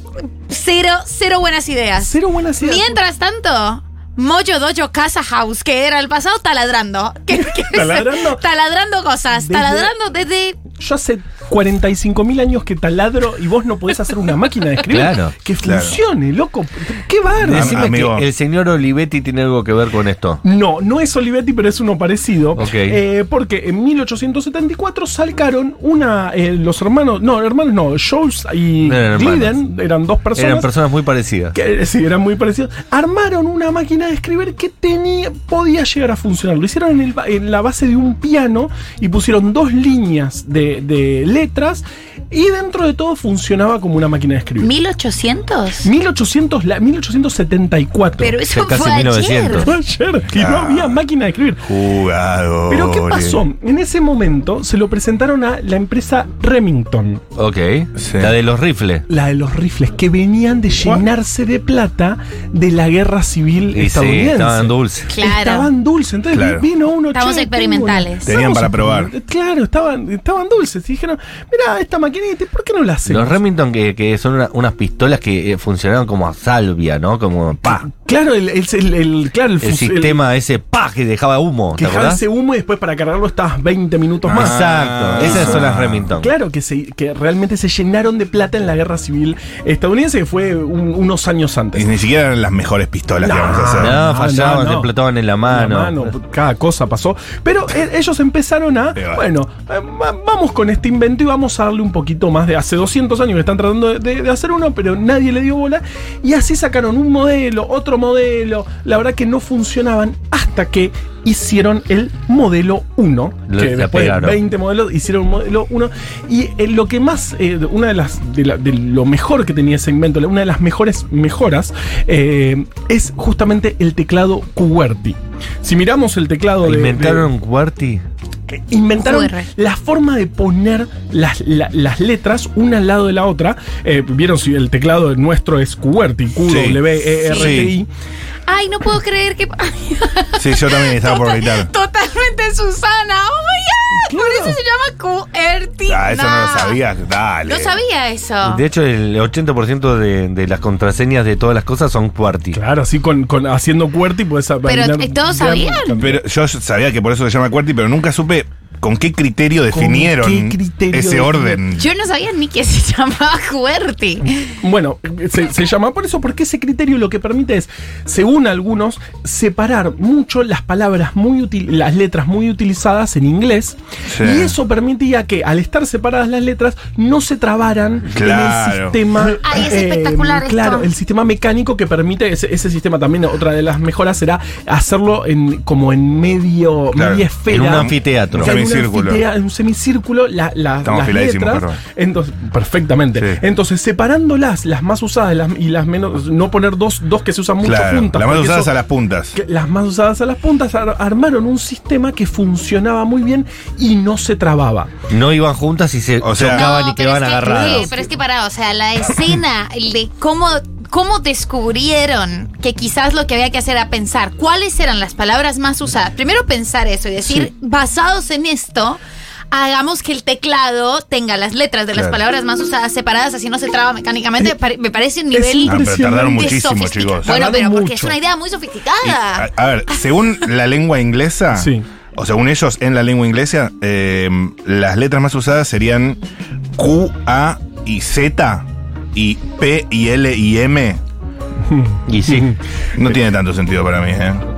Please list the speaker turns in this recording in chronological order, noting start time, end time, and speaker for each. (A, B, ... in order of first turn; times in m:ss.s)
0:00.5-0:10.6 A
0:02.0-0:03.0 B
0:07.3-0:08.4 B
0:09.3-0:09.9 B
0:10.7-0:17.9 B
0:14.9-0:15.3 C
0:15.6-0:16.0 D
0:17.4-0:20.4 C
0:17.5-0:18.2 D
0:20.4-0:30.7 B
0:22.5-0:23.0 C
0:28.8-0:29.6 C
0:30.3-0:31.5 C
0:31.5-0:44.7 B
0:44.6-0:45.9 A
0:45.8-0:48.4 B
0:48.2-0:49.7 A
0:48.5-0:49.7 C
0:49.5-0:51.7 B
0:50.3-0:51.0 D
0:51.6-0:53.4 D
0:52.7-0:57.2 B
0:57.4-0:59.0 C
0:58.0-0:58.3 D
0:59.1-1:13.4 B
1:00.8-1:01.0 D
1:03.7-1:05.1 C
1:05.1-1:05.7 A
1:06.3-1:06.6 D
1:07.1-1:08.3 A
1:08.2-1:09.1 D
1:13.0-1:17.9 C
1:17.6-1:20.2 B
1:19.6-1:22.2 C
1:21.8-1:24.6 B
1:24.2-1:26.1 D
1:24.3-1:26.3 C
1:25.2-1:31.9 B
1:31.7-1:34.0 D
1:33.2-1:34.9 B
1:33.8-1:36.1 C
1:35.4-2:07.3 B
1:39.0-1:39.2 D
1:53.5-1:54.4 C
2:06.6-2:08.0 C
2:08.5-2:17.9 B
2:09.0-2:09.5 A
2:16.5-2:17.0 D
2:17.2-2:17.6 A
2:17.3-2:17.8 C
2:18.5-2:26.8 A
2:20.4-2:21.7 D
2:23.9-2:24.6 B
2:25.9-2:27.8 D
2:27.4-2:28.6 A
2:28.4-2:32.6 C
2:32.5-2:36.2 B
2:34.6-2:35.9 A
2:36.0-2:41.9 D
2:39.7-2:41.6 B
2:41.8-2:44.5 A
2:44.6-3:18.7 B
2:54.1-2:54.5 D
2:58.1-2:59.0 D
2:59.2-3:00.9 A
3:06.9-3:07.2 D
3:07.5-3:08.5 C
3:08.3-3:09.2 D
3:10.8-3:11.8 D
3:13.1-3:13.4 C
3:17.6-3:19.4 D
3:19.3-3:24.9 B
3:25.1-3:28.0 C
3:26.2-3:26.7 D
3:26.4-3:39.0 A
3:27.4-3:28.1 B
3:37.2-3:37.5 B
3:39.5-3:49.5 A
3:41.9-3:42.2 D
3:45.3-3:46.6 B
3:45.6-3:47.4 D
3:47.2-3:48.2 B
3:49.0-3:56.2 D
3:51.5-3:51.8 B
3:56.8-4:01.0 D
4:01.6-4:02.5 B
4:02.1-4:02.5 C
4:03.0-4:04.4 D